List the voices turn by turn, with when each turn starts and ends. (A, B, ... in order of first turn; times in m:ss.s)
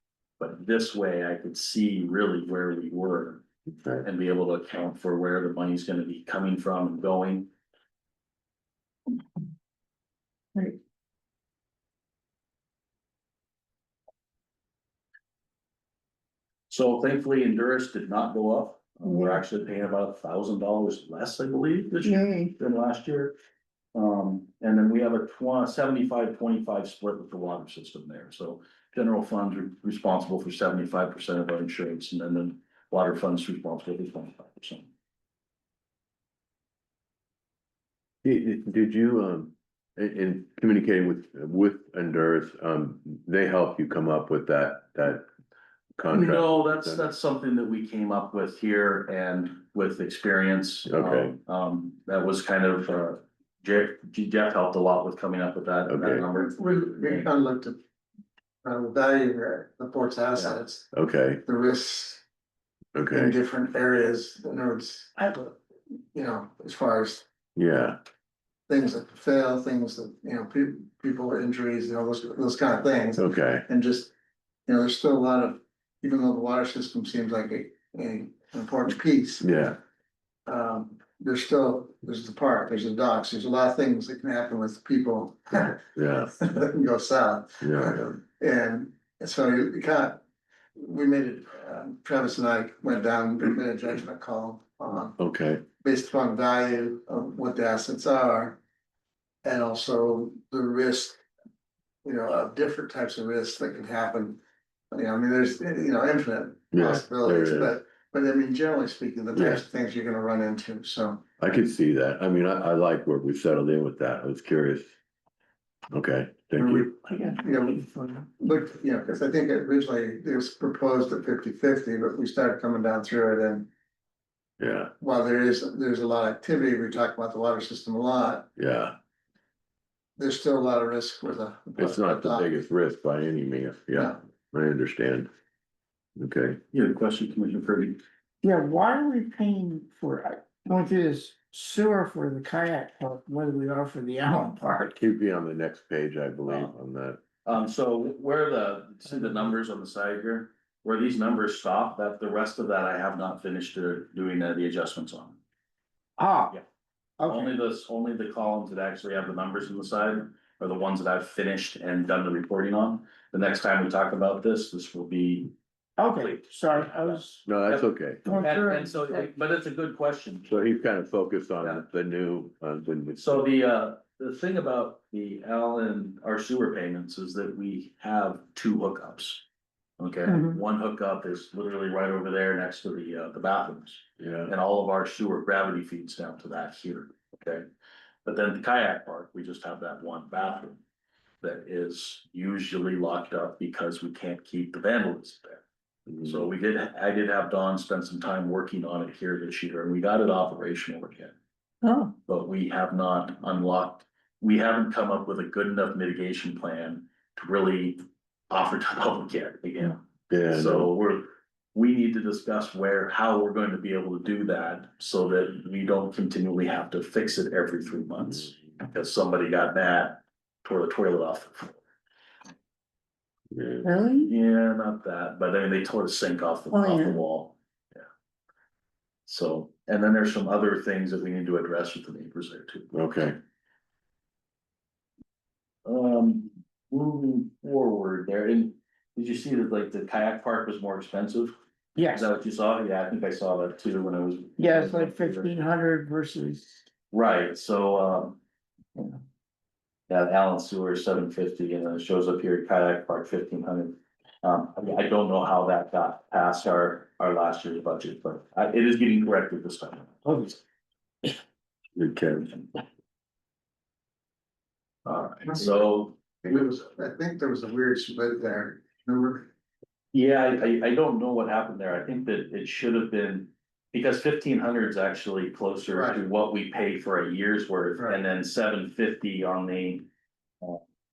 0:00.4-0:03.4 A
0:03.8-0:04.0 B
0:04.0-0:07.5 A
0:16.7-0:23.4 A
0:19.0-0:19.4 C
0:22.0-0:22.5 C
0:24.0-0:34.9 A
0:38.2-0:45.3 B
0:46.0-0:47.0 B
0:46.1-0:57.3 A
0:50.9-0:51.4 B
0:55.9-0:56.2 B
0:56.3-0:57.8 D
0:58.6-1:00.9 D
1:00.9-1:01.4 B
1:01.4-1:02.2 D
1:03.0-1:03.4 B
1:03.1-1:05.6 D
1:06.1-1:07.2 D
1:07.6-1:08.0 B
1:08.7-1:14.1 D
1:13.2-1:13.6 B
1:14.7-1:19.5 D
1:19.4-1:19.8 B
1:20.5-1:30.2 D
1:26.0-1:26.4 B
1:27.6-1:28.2 B
1:30.8-1:35.2 D
1:35.2-1:35.6 B
1:35.8-1:38.6 D
1:39.4-1:41.2 D
1:42.0-1:44.4 D
1:44.9-1:51.2 D
1:46.7-1:47.8 B
1:49.3-1:49.6 B
1:51.4-1:54.9 B
1:55.9-1:56.9 B
1:56.6-2:03.7 D
1:57.1-1:58.0 C
2:04.6-2:04.9 B
2:05.0-2:08.5 D
2:08.6-2:09.0 B
2:10.2-2:12.5 D
2:11.8-2:15.3 B
2:16.2-2:16.6 B
2:16.7-2:18.0 A
2:18.4-2:25.0 C
2:25.0-2:27.2 B
2:26.5-2:26.7 A
2:27.4-2:35.4 A
2:36.2-2:36.6 C
2:37.2-2:37.5 C
2:37.2-2:45.5 A
2:46.0-2:47.4 C
2:46.1-2:50.5 A
2:47.5-2:48.3 B
2:48.2-2:49.2 C
2:50.5-2:53.4 B
2:53.2-2:59.4 A
3:00.0-3:07.7 A
3:00.3-3:00.6 C
3:04.2-3:04.5 B
3:08.2-3:10.8 A
3:11.4-3:15.6 A
3:16.1-3:16.5 B
3:16.2-3:21.4 A
3:21.8-3:22.1 C
3:22.3-3:30.0 A
3:30.3-3:30.9 B
3:30.5-3:41.8 A
3:43.5-3:43.9 B
3:43.8-3:44.3 C
3:44.2-3:47.6 A
3:46.7-3:47.2 C
3:49.3-3:52.9 A
3:52.9-3:53.4 B
3:55.9-4:01.5 A
4:02.0-4:02.3 C
4:02.1-4:05.6 A
4:04.6-4:06.8 C
4:07.1-4:08.4 A
4:10.1-4:20.5 A
4:22.0-4:22.5 B
4:25.1-4:26.2 A
4:25.5-4:25.8 D
4:26.4-4:29.5 D
4:30.1-4:40.1 A
4:35.9-4:36.2 D
4:38.0-4:38.2 D